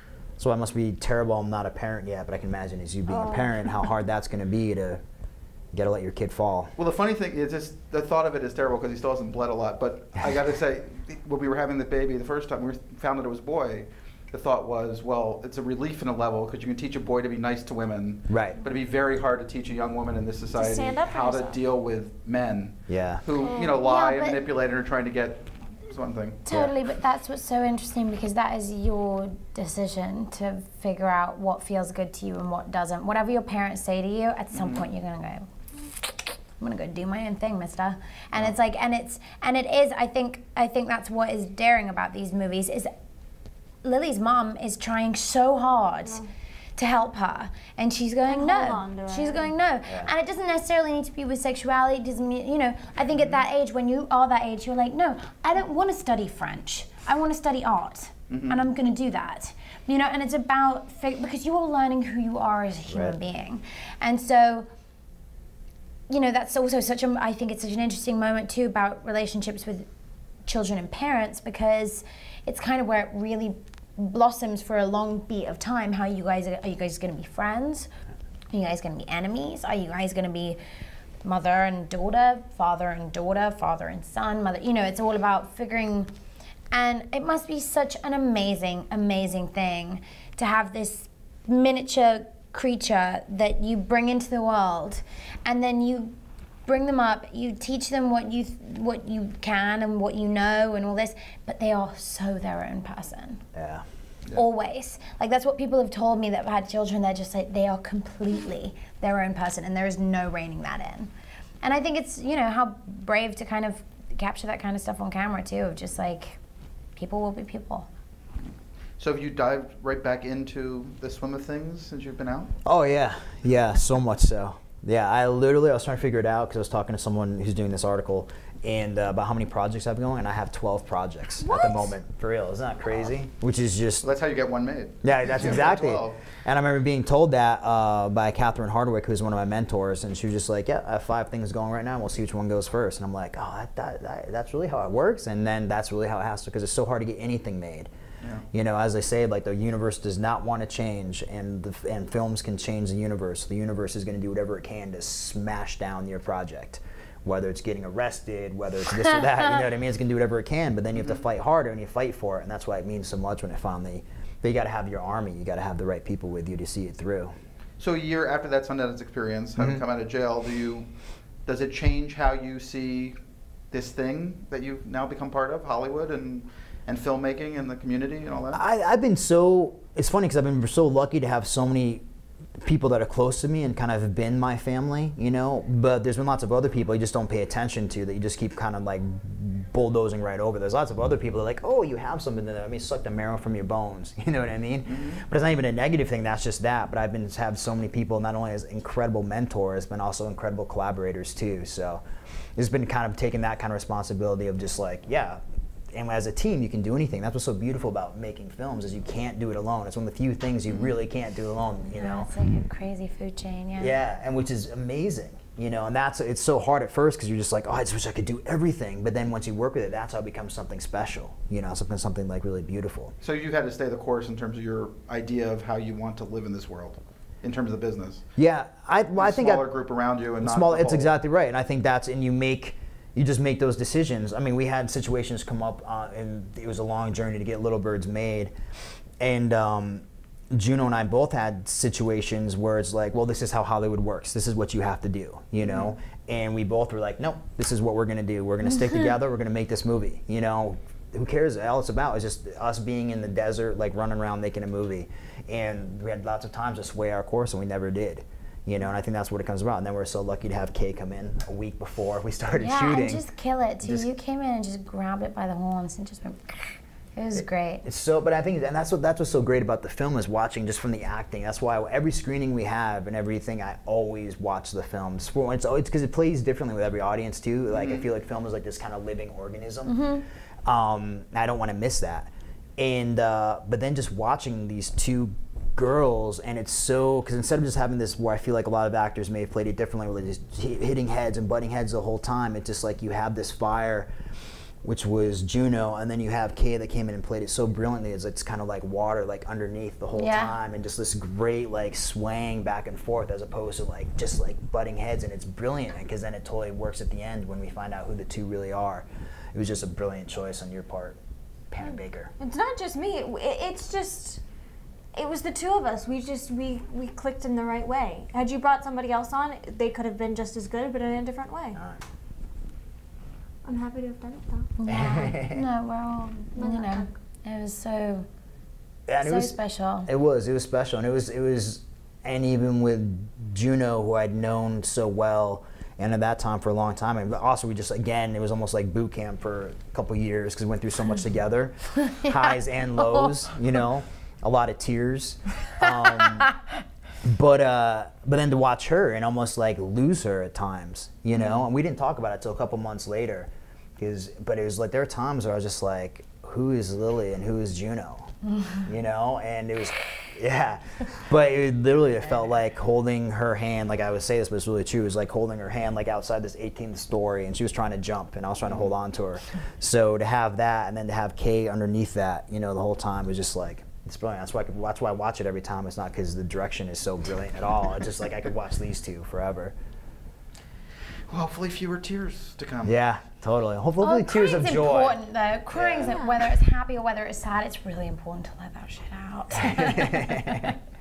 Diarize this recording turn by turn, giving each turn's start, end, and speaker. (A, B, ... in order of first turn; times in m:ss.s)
0:00.4-0:05.0 A
0:03.1-0:03.8 B
0:05.7-0:06.7 A
0:06.8-0:26.4 C
0:18.3-0:18.6 A
0:20.5-0:21.6 B
0:22.9-0:23.2 A
0:23.4-0:23.8 B
0:23.4-0:24.4 D
0:26.4-0:35.5 D
0:34.5-0:34.9 C
0:36.1-0:42.9 D
0:43.8-0:46.2 D
0:46.8-1:04.7 D
0:48.3-0:49.5 B
0:58.3-0:58.7 C
1:02.9-1:03.2 A
1:06.1-1:09.8 D
1:10.4-1:17.9 D
1:18.5-1:20.6 D
1:21.2-1:26.1 D
1:26.7-1:36.2 D
1:36.7-1:43.4 D
1:43.5-1:43.8 A
1:44.3-1:51.1 D
1:51.6-1:56.4 D
1:57.0-1:57.9 D
1:59.0-2:02.5 C
2:02.6-2:14.1 A
2:11.4-2:11.9 B
2:14.0-2:16.2 C
2:15.0-2:27.9 A
2:28.2-2:28.5 C
2:28.5-2:47.3 A
2:47.8-2:50.9 C
2:49.6-2:49.8 A
2:51.4-2:53.2 C
2:53.7-2:58.6 C
2:58.5-3:02.0 A
3:02.6-3:22.0 A
3:14.9-3:15.2 C
3:22.6-3:25.4 A
3:25.9-3:32.3 A
3:30.7-3:30.9 C
3:32.0-3:33.9 D
3:33.8-3:43.1 A
3:43.2-3:48.2 C
3:48.4-3:49.6 A
3:49.2-3:51.1 C
3:50.4-3:58.5 A
3:59.2-4:23.2 A
4:05.6-4:05.9 C
4:22.6-4:27.8 D
4:23.8-4:24.1 A
4:27.8-4:40.0 A
4:37.7-4:38.1 C
4:39.9-4:40.2 D
4:40.6-4:54.1 A
4:54.8-5:11.2 A
5:00.1-5:00.5 D
5:11.7-5:12.3 A
5:12.4-5:14.4 B
5:15.1-5:21.8 B
5:21.8-5:22.0 A
5:23.6-5:24.7 B
5:24.8-5:28.3 D
5:24.9-5:25.6 A
5:26.6-5:27.1 B
5:29.1-5:46.5 A
5:29.2-5:30.1 D
5:43.0-5:43.3 D
5:47.2-6:19.8 A
5:51.3-5:51.6 C
6:21.3-6:22.9 C
6:22.8-6:25.2 A
6:24.0-6:30.8 D
6:25.7-6:26.2 A
6:26.1-6:26.3 B
6:29.8-6:30.6 A